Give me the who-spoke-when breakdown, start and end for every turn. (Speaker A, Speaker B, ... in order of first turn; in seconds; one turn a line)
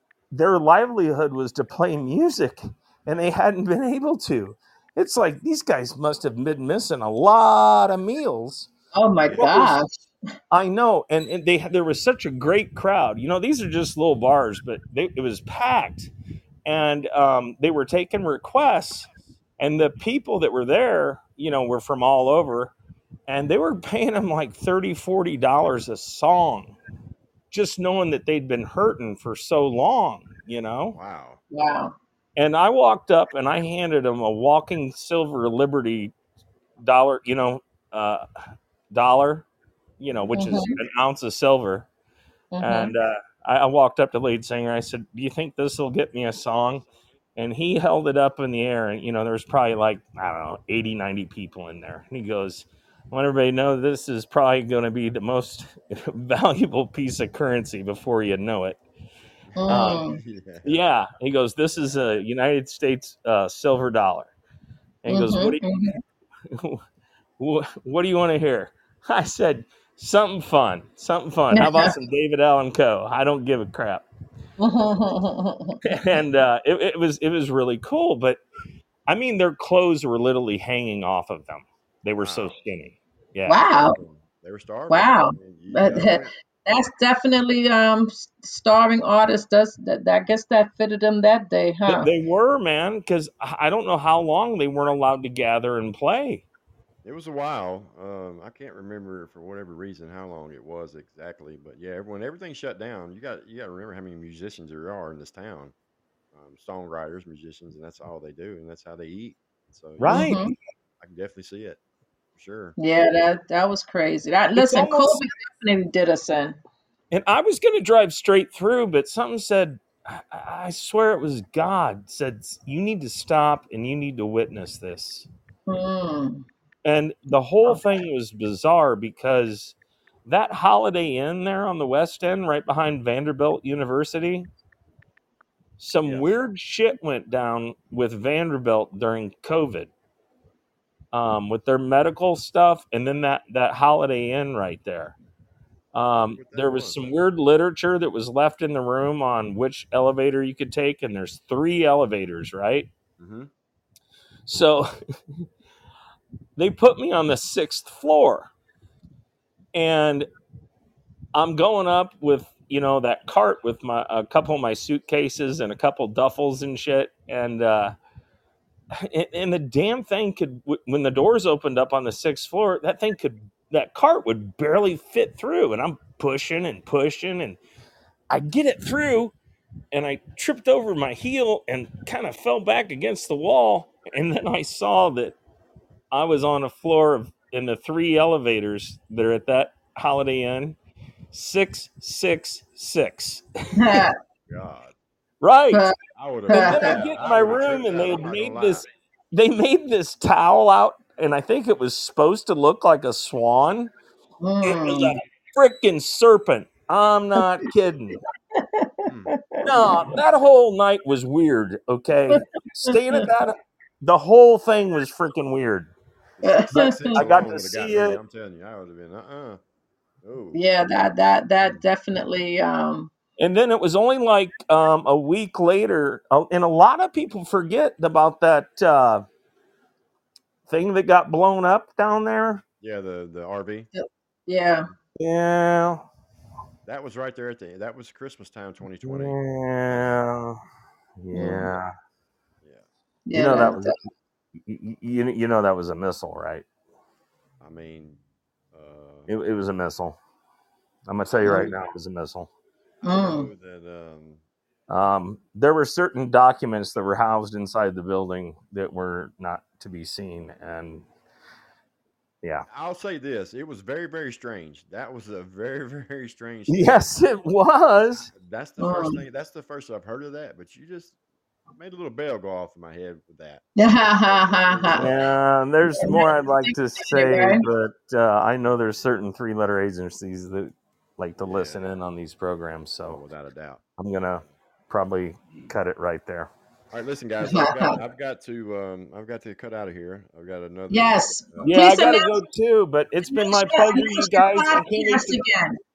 Speaker A: 0.3-8.7
Speaker B: 8.9-10.0
Speaker A: 9.3-9.8
Speaker A: 10.5-16.1
Speaker A: 16.6-19.1
Speaker A: 19.6-22.7
Speaker A: 23.3-26.8
Speaker A: 27.5-31.0
Speaker C: 30.9-31.4
Speaker B: 31.5-31.9
Speaker A: 32.4-36.1
Speaker A: 36.8-38.3
Speaker A: 38.9-39.5
Speaker A: 40.0-41.9
Speaker C: 40.2-40.5
Speaker B: 40.3-40.7
Speaker B: 42.5-42.9
Speaker A: 42.6-58.8
Speaker C: 59.5-60.8
Speaker B: 59.6-60.2
Speaker A: 59.7-60.0
Speaker A: 60.6-64.3
Speaker A: 65.0-65.9
Speaker B: 65.1-66.0
Speaker A: 66.5-66.8
Speaker A: 67.4-74.1
Speaker B: 71.5-71.9
Speaker B: 74.6-75.8
Speaker A: 75.8-78.4
Speaker A: 79.1-83.6
Speaker C: 82.2-82.5
Speaker B: 83.5-84.0
Speaker C: 83.6-86.3
Speaker B: 84.9-92.1
Speaker A: 91.9-96.5
Speaker C: 97.0-105.7
Speaker C: 106.3-110.3
Speaker A: 110.0-110.5
Speaker B: 110.1-110.5
Speaker C: 111.0-111.8
Speaker C: 112.3-112.8
Speaker B: 112.8-116.6
Speaker A: 114.6-115.2
Speaker A: 117.1-125.3
Speaker B: 125.7-126.5
Speaker A: 126.8-134.5
Speaker A: 135.8-139.9
Speaker A: 141.1-145.2
Speaker A: 145.9-152.9
Speaker C: 146.1-147.2
Speaker C: 153.2-153.5
Speaker A: 154.5-154.9
Speaker A: 156.6-158.5
Speaker A: 159.7-160.3
Speaker A: 161.3-167.9
Speaker A: 169.0-177.6
Speaker A: 178.3-179.3
Speaker A: 179.9-185.4
Speaker A: 186.1-190.8
Speaker A: 191.3-194.1
Speaker B: 193.8-194.2
Speaker C: 194.5-194.9
Speaker A: 195.4-195.9
Speaker C: 196.2-198.9
Speaker B: 196.5-197.0
Speaker A: 196.5-203.9
Speaker B: 204.4-205.2
Speaker A: 204.6-208.2
Speaker B: 208.5-210.1
Speaker C: 209.1-209.4
Speaker A: 209.6-215.9
Speaker B: 212.3-213.3
Speaker C: 216.4-219.6
Speaker B: 216.4-217.3
Speaker A: 217.1-218.2
Speaker C: 220.2-220.6
Speaker B: 220.5-223.1
Speaker A: 223.4-229.2
Speaker A: 230.7-232.6
Speaker C: 232.7-233.9
Speaker B: 233.9-234.9
Speaker A: 235.2-236.1
Speaker C: 236.9-239.4
Speaker A: 239.0-240.6
Speaker C: 239.9-240.2
Speaker A: 241.2-241.9
Speaker B: 241.3-241.7
Speaker C: 242.6-242.9
Speaker B: 243.3-243.9
Speaker A: 243.3-243.9
Speaker A: 244.7-246.7
Speaker C: 247.6-248.2
Speaker C: 248.7-249.3
Speaker A: 249.3-250.2
Speaker A: 251.1-252.5
Speaker B: 251.4-251.7
Speaker C: 253.0-254.4
Speaker B: 253.1-253.5
Speaker A: 254.9-261.1
Speaker C: 262.7-267.1
Speaker A: 266.7-268.3
Speaker C: 268.1-271.1
Speaker B: 268.8-269.2
Speaker C: 271.7-273.6
Speaker B: 273.8-275.1
Speaker C: 274.3-275.4
Speaker A: 275.0-283.2
Speaker B: 275.9-277.6
Speaker C: 281.4-281.9
Speaker C: 283.1-283.8
Speaker A: 284.0-286.5
Speaker C: 286.9-291.8
Speaker B: 287.4-288.0
Speaker B: 290.9-292.3
Speaker A: 291.6-295.4
Speaker B: 293.3-295.8